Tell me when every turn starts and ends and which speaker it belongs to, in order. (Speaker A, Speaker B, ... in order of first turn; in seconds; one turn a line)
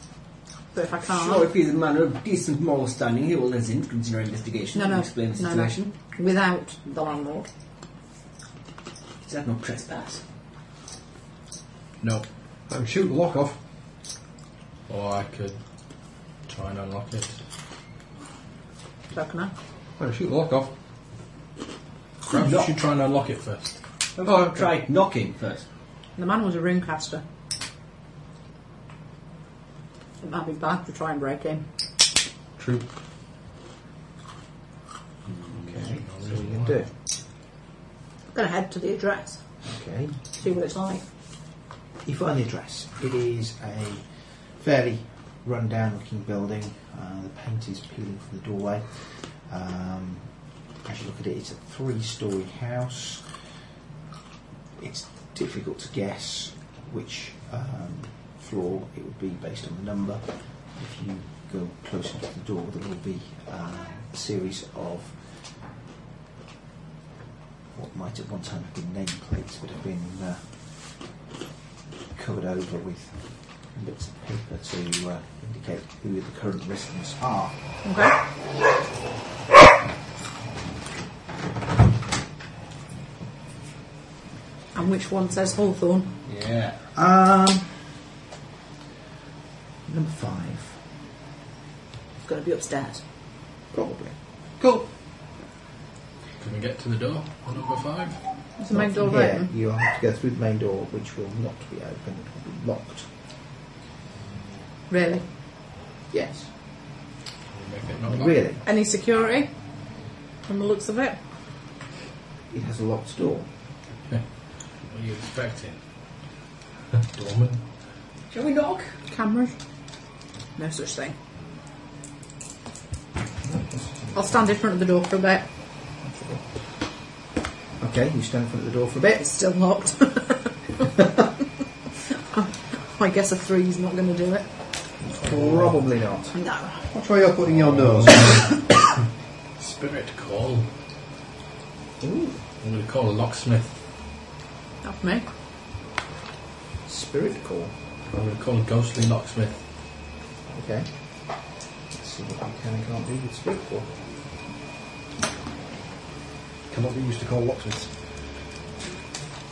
Speaker A: 0.7-1.5
Speaker B: 1.1-5.9
Speaker A: 4.7-7.5
Speaker B: 9.2-10.2
Speaker C: 12.0-12.2
Speaker D: 12.7-13.6
Speaker C: 14.9-15.6
Speaker C: 16.4-17.4
Speaker A: 19.1-19.5
Speaker D: 20.0-20.7
Speaker B: 22.3-22.7
Speaker C: 22.3-23.8
Speaker B: 24.1-25.6
Speaker D: 24.2-24.7
Speaker A: 26.1-27.2
Speaker A: 30.2-31.7
Speaker D: 32.6-32.8
Speaker E: 35.5-36.9
Speaker C: 35.7-36.8
Speaker A: 38.3-39.7
Speaker E: 39.6-40.3
Speaker A: 40.3-41.0
Speaker E: 42.0-53.4
Speaker E: 54.8-65.5
Speaker E: 67.7-71.0
Speaker E: 72.1-77.6
Speaker A: 77.8-78.2
Speaker A: 84.7-86.1
Speaker B: 86.2-86.9
Speaker E: 86.9-88.0
Speaker E: 89.8-90.8
Speaker A: 92.2-93.0
Speaker E: 93.7-94.2
Speaker C: 96.4-98.2
Speaker A: 98.6-99.5
Speaker E: 98.7-103.1
Speaker A: 104.9-105.3
Speaker E: 106.1-106.5
Speaker C: 107.5-108.4
Speaker E: 108.1-108.6
Speaker A: 108.6-109.9
Speaker A: 110.4-111.2
Speaker E: 112.5-113.5
Speaker C: 114.0-115.8
Speaker C: 117.0-117.7
Speaker B: 118.3-119.0
Speaker A: 119.1-119.6
Speaker A: 120.5-121.2
Speaker E: 123.4-124.4
Speaker A: 124.1-125.5
Speaker E: 126.0-127.0
Speaker E: 127.8-129.3
Speaker A: 129.2-130.9
Speaker A: 132.3-134.5
Speaker E: 135.1-136.3
Speaker C: 135.1-135.6
Speaker D: 135.2-135.9
Speaker A: 136.3-136.8
Speaker D: 136.9-138.5
Speaker C: 137.5-138.6
Speaker C: 139.6-140.7
Speaker E: 142.0-142.4
Speaker C: 142.6-143.8
Speaker A: 144.8-145.2
Speaker E: 146.8-147.7
Speaker C: 148.1-149.7
Speaker E: 150.5-153.9
Speaker D: 156.7-157.9